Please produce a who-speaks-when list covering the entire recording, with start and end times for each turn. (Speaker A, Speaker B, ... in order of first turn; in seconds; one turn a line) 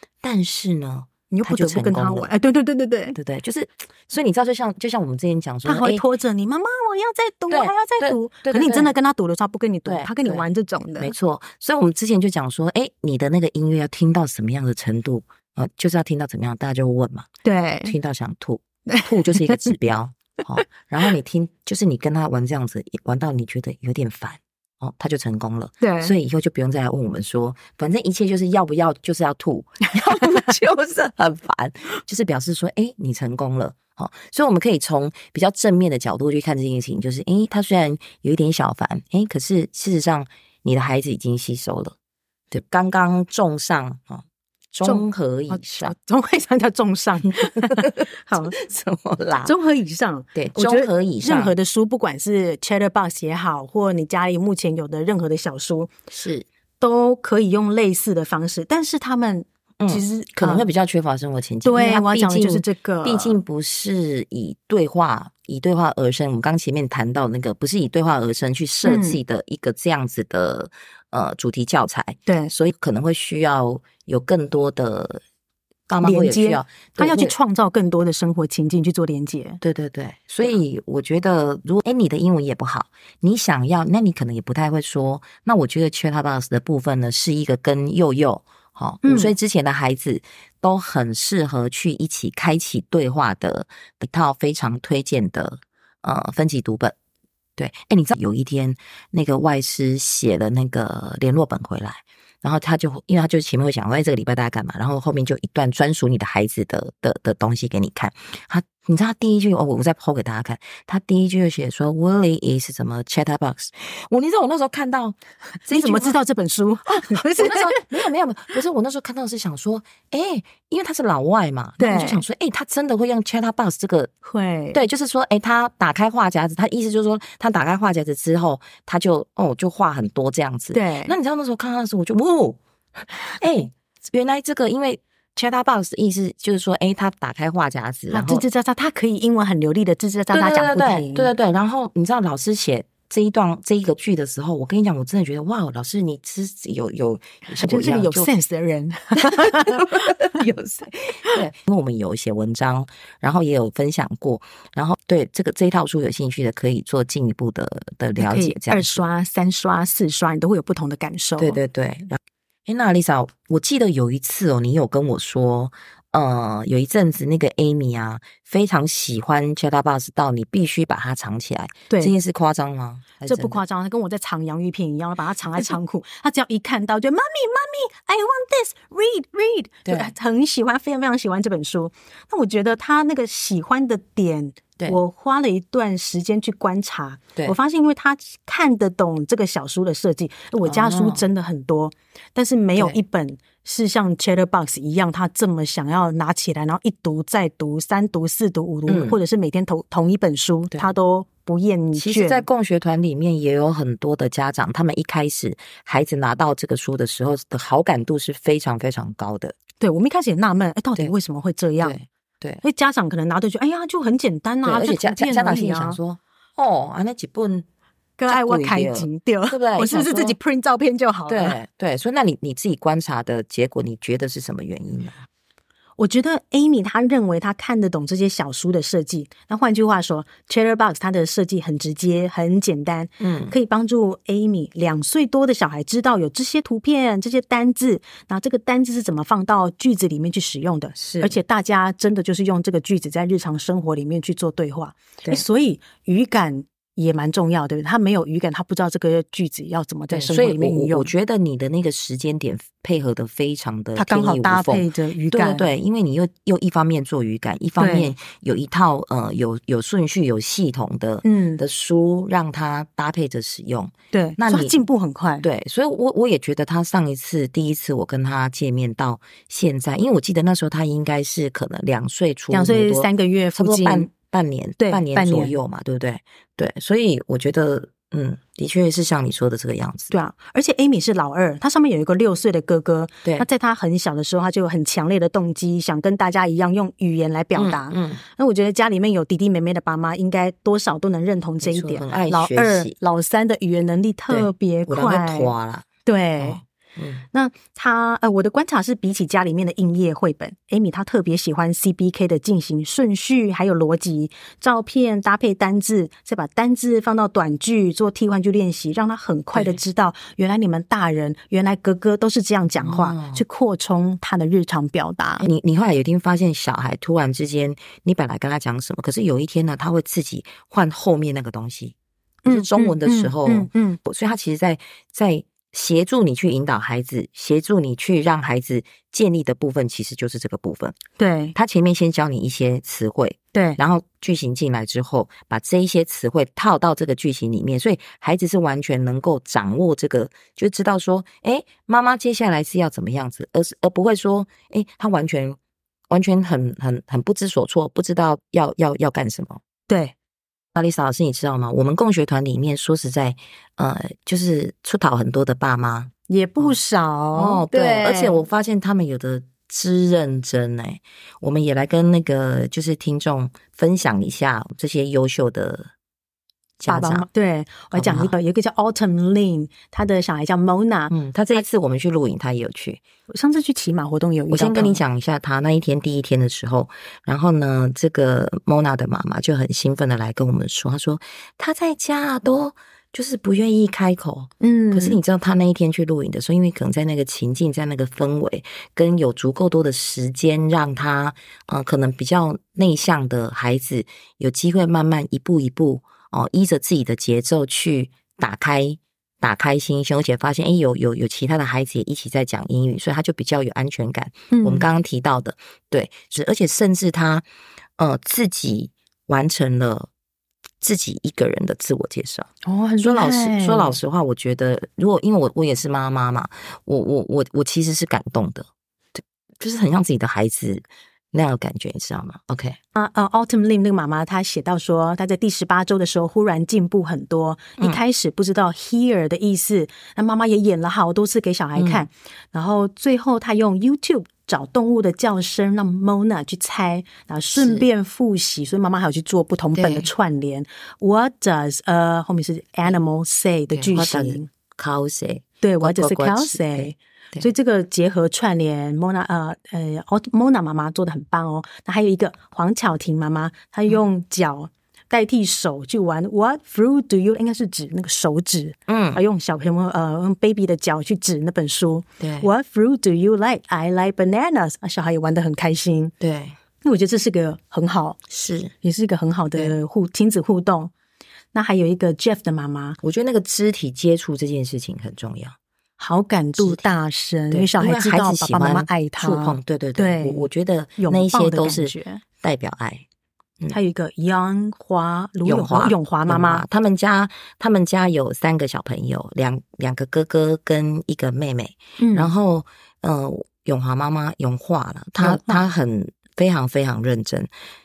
Speaker A: 0.2-2.3
Speaker B: 1.3-3.2
Speaker A: 3.1-6.0
Speaker B: 5.6-11.1
Speaker A: 7.5-8.9
Speaker A: 9.8-10.4
Speaker A: 11.0-17.3
Speaker B: 17.4-17.9
Speaker A: 17.8-41.9
Speaker B: 18.9-19.7
Speaker B: 25.8-26.1
Speaker B: 30.0-30.5
Speaker A: 42.5-45.9
Speaker B: 44.8-48.5
Speaker A: 47.5-49.5
Speaker B: 49.4-55.9
Speaker A: 50.3-51.5
Speaker A: 56.1-56.5
Speaker B: 56.8-60.7
Speaker A: 59.8-75.2
Speaker B: 61.6-63.4
Speaker B: 68.8-69.2
Speaker B: 72.3-72.5
Speaker A: 75.9-77.3
Speaker B: 76.0-79.6
Speaker A: 79.6-96.9
Speaker B: 89.0-89.3
Speaker A: 97.6-116.2
Speaker B: 115.7-117.9
Speaker A: 116.9-124.1
Speaker B: 121.8-122.2
Speaker B: 124.2-124.8
Speaker A: 124.7-132.6
Speaker B: 130.7-131.1
Speaker A: 133.3-138.4
Speaker B: 138.1-141.3
Speaker A: 140.3-148.3
Speaker B: 147.6-150.4
Speaker A: 149.2-159.0
Speaker B: 158.2-161.6
Speaker A: 161.4-173.6
Speaker B: 173.2-202.4
Speaker A: 179.8-180.1
Speaker A: 190.6-191.2
Speaker A: 198.9-199.2
Speaker A: 201.9-209.6
Speaker B: 209.8-212.0
Speaker A: 211.8-212.6
Speaker B: 212.6-216.0
Speaker A: 214.6-217.7
Speaker B: 218.2-221.6
Speaker A: 218.3-220.3
Speaker A: 221.3-225.2
Speaker B: 226.0-251.1
Speaker A: 233.2-233.5
Speaker A: 240.9-241.3
Speaker A: 250.1-264.7
Speaker B: 253.9-255.7
Speaker B: 257.8-258.1
Speaker B: 261.2-261.6
Speaker B: 264.1-265.4
Speaker A: 265.4-280.1
Speaker B: 272.5-274.1
Speaker B: 274.8-275.5
Speaker B: 280.1-295.5
Speaker A: 287.5-288.2
Speaker A: 291.6-292.9
Speaker A: 294.3-295.9
Speaker B: 296.0-296.6
Speaker A: 296.4-297.2
Speaker B: 297.3-315.5
Speaker A: 309.5-309.8
Speaker A: 312.8-313.4
Speaker A: 315.4-331.0
Speaker B: 322.4-324.0
Speaker B: 331.2-331.6
Speaker A: 331.5-345.6
Speaker B: 333.5-333.8
Speaker A: 346.1-349.6
Speaker B: 349.9-350.1
Speaker A: 350.7-356.7
Speaker B: 356.3-358.4
Speaker A: 357.3-365.9
Speaker A: 366.8-367.2
Speaker B: 366.9-371.1
Speaker A: 367.9-368.3
Speaker A: 371.1-373.0
Speaker B: 373.3-375.0
Speaker A: 374.5-407.4
Speaker B: 384.6-385.2
Speaker B: 404.5-404.9
Speaker A: 408.0-410.1
Speaker A: 410.8-412.5
Speaker B: 412.6-414.0
Speaker A: 413.0-422.8
Speaker B: 422.9-444.5
Speaker A: 431.8-432.0
Speaker A: 437.5-437.9
Speaker A: 439.7-440.1
Speaker A: 443.7-447.5
Speaker B: 445.6-466.1
Speaker A: 458.9-459.2
Speaker A: 462.2-462.5
Speaker A: 466.2-466.6
Speaker B: 466.8-468.2
Speaker A: 468.3-468.7
Speaker B: 468.8-470.9
Speaker B: 471.5-473.0
Speaker A: 473.0-475.6
Speaker B: 476.0-482.2
Speaker A: 476.6-476.8
Speaker A: 477.5-483.1
Speaker B: 483.7-486.6
Speaker A: 485.4-497.5
Speaker B: 492.0-492.3
Speaker B: 495.2-495.6